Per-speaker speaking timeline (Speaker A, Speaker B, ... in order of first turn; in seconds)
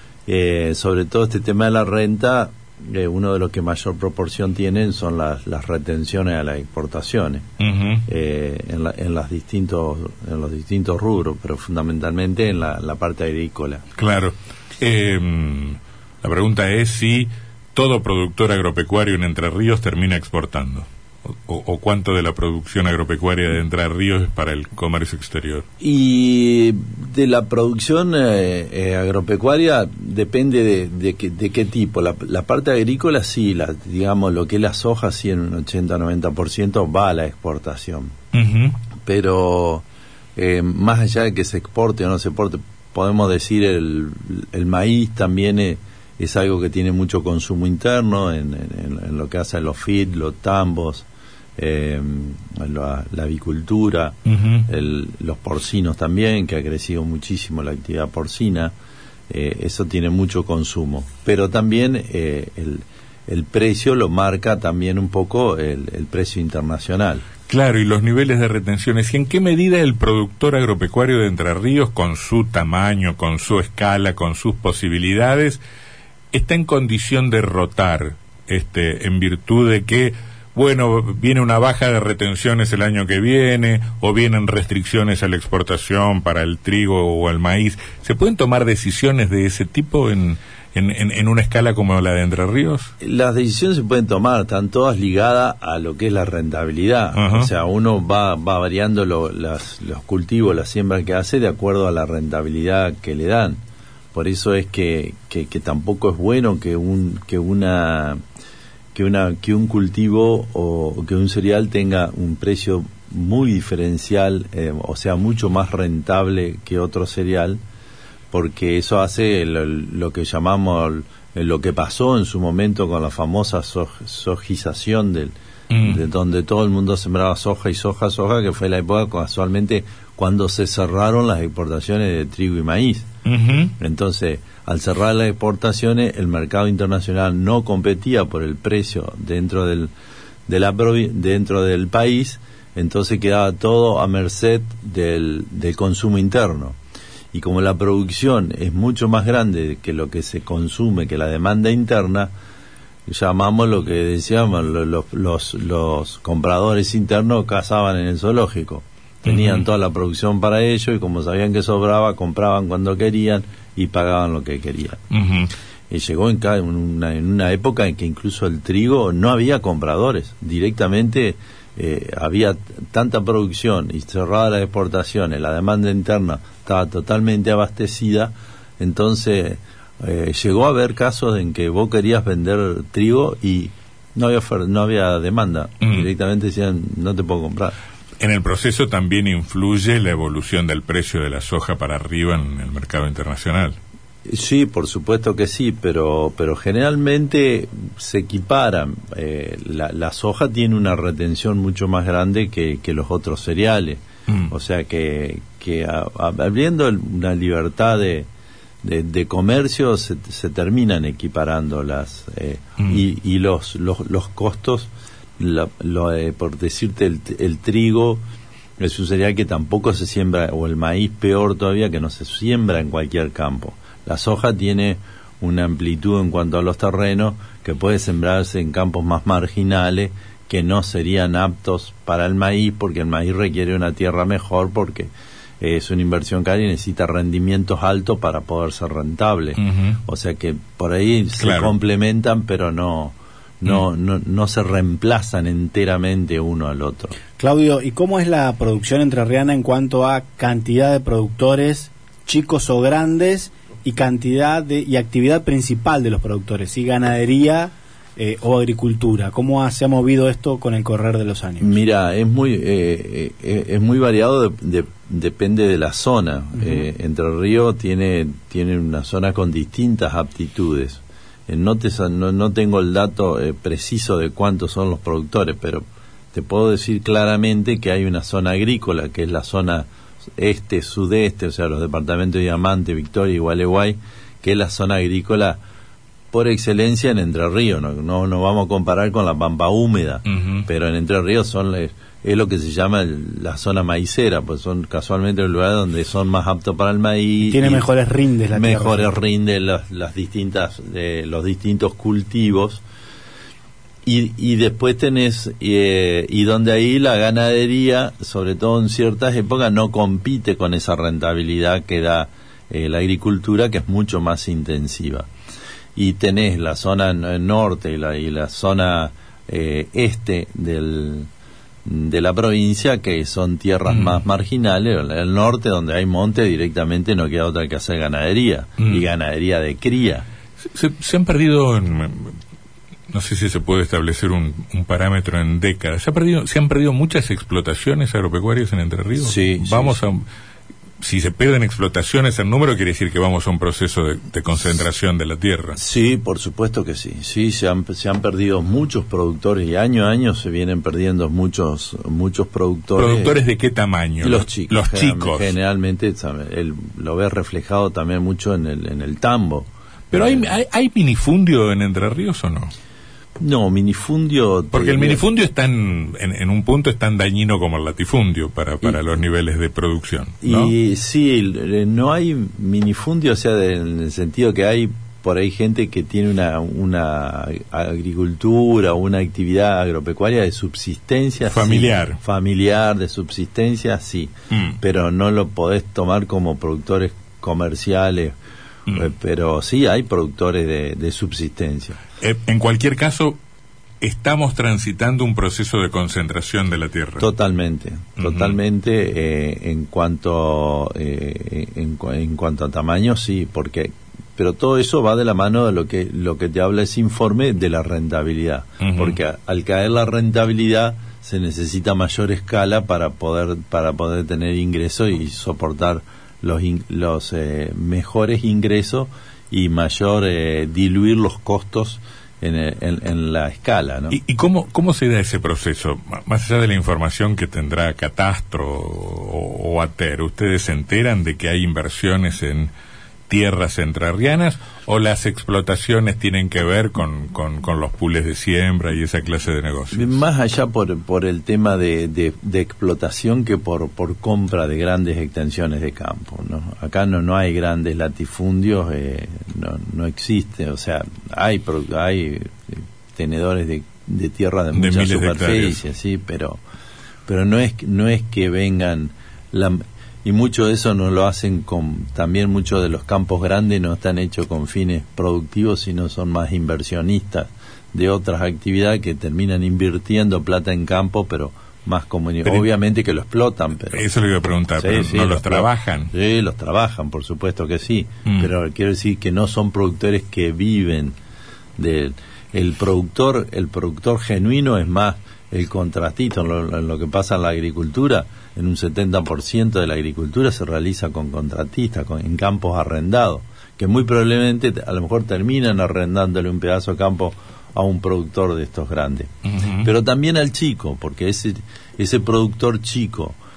Speaker A: 0.2-7.5, 8.1-13.8, 25.8-38.1, 39.0-39.8, 40.4-51.0, 51.6-58.7, 59.3-67.2, 93.0-103.6, 104.1-108.2, 108.9-117.6, 118.3-133.1, 133.8-139.9, 140.5-146.8, 147.3-152.3, 153.1-165.0, 165.9-187.7, 194.2-208.3, 208.8-218.2, 218.8-247.2, 261.6-285.6, 286.3-297.8, 298.5-302.8, 304.0-315.3, 315.9-321.3, 321.8-330.2, 339.2-340.0, 345.8-353.4, 354.2-360.5, 363.4-365.2, 370.4-388.4, 388.9-392.0, 397.2-424.2, 439.9-456.6, 457.2-474.0, 474.8-481.1, 481.8-503.4
Speaker B: 7.6-8.1, 14.0-25.6, 38.3-38.8, 54.2-54.7, 67.5-75.6, 76.3-92.9, 97.1-97.5, 125.7-126.0, 133.2-133.7, 159.2-159.7, 165.1-165.5, 185.8-186.1, 188.2-193.8, 239.6-240.0, 241.4-241.7, 290.3-290.6, 323.9-324.2, 330.6-332.4, 333.1-340.2, 341.0-345.8, 352.9-355.5, 360.1-362.7, 364.7-370.7, 381.4-382.2, 392.2-393.4, 394.0-397.3, 398.2-398.6, 408.8-409.2, 424.1-432.7, 433.3-440.2, 454.7-455.8, 473.9-476.1, 499.5-499.9
Speaker C: 247.4-261.8, 297.4-299.1